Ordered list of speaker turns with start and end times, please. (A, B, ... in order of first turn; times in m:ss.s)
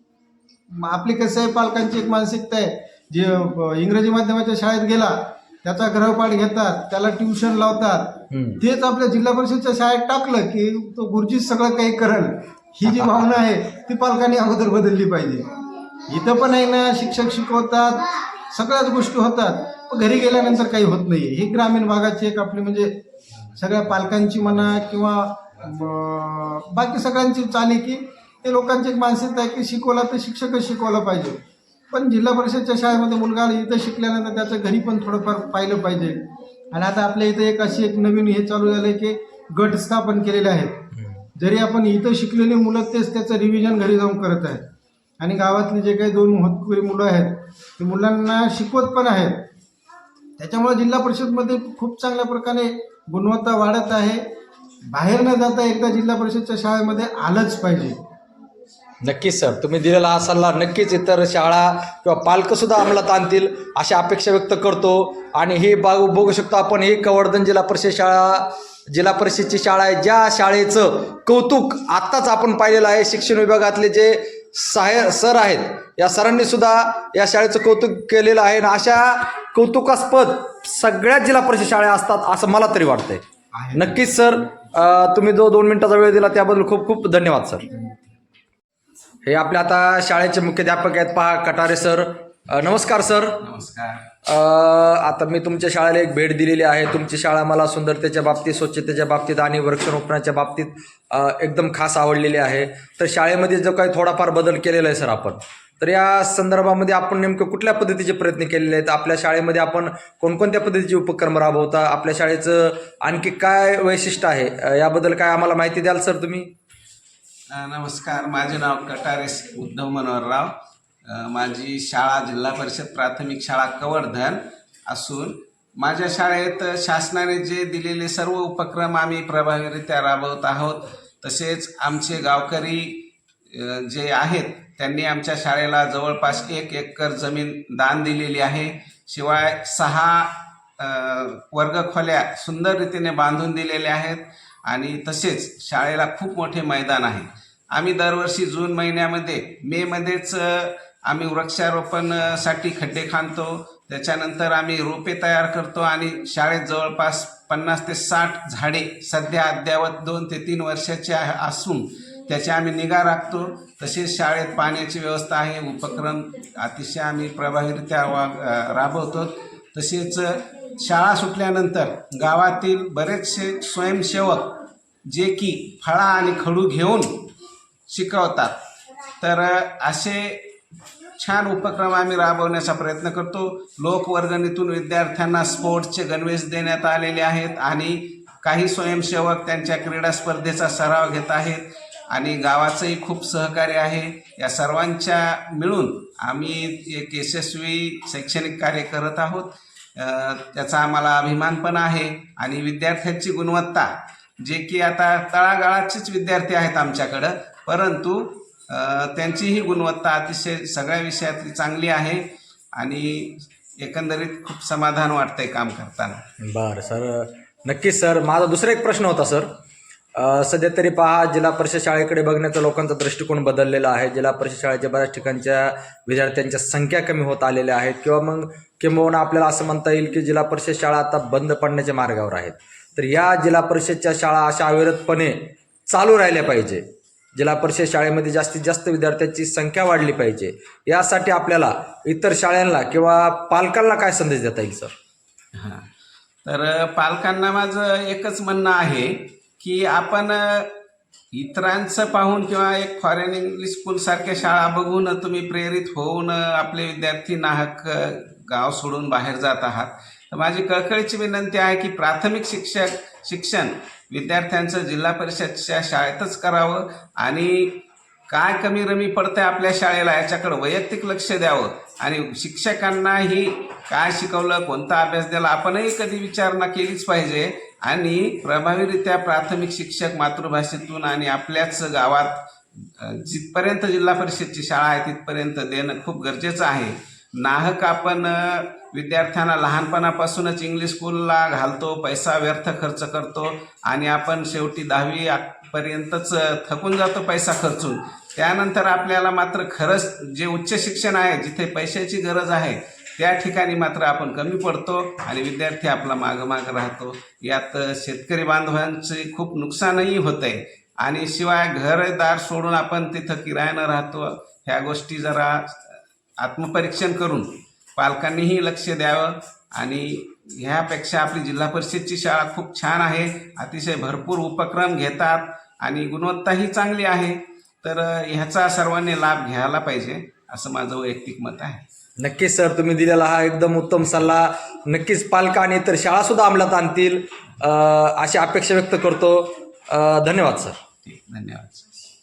0:00.7-0:15.4 A
0:08.3-0:08.6 B
0:12.8-0:13.4 B
0:16.1-0:23.0 A
0:23.6-0:44.6 A
0:41.0-0:41.2 B
0:45.2-0:49.4 A
0:50.4-0:54.2 A
0:54.9-0:58.0 A
0:59.0-1:23.2 B
1:23.5-1:24.0 A
1:23.8-1:27.9 B
1:29.2-1:33.4 B
1:33.4-1:34.1 C
1:34.2-1:56.5 B
1:57.5-2:00.5 C
2:01.1-2:57.3 C
2:57.9-2:58.6 C
2:59.2-3:00.6 C
3:01.2-3:32.2 C
3:32.8-3:36.2 C
3:36.4-3:39.5 B
3:40.2-3:56.8 B
3:57.4-4:04.9 B
4:05.6-4:05.9 C
4:06.4-4:10.8 C
4:11.3-5:31.8 C
5:32.2-5:40.8 B
5:41.0-5:42.0 C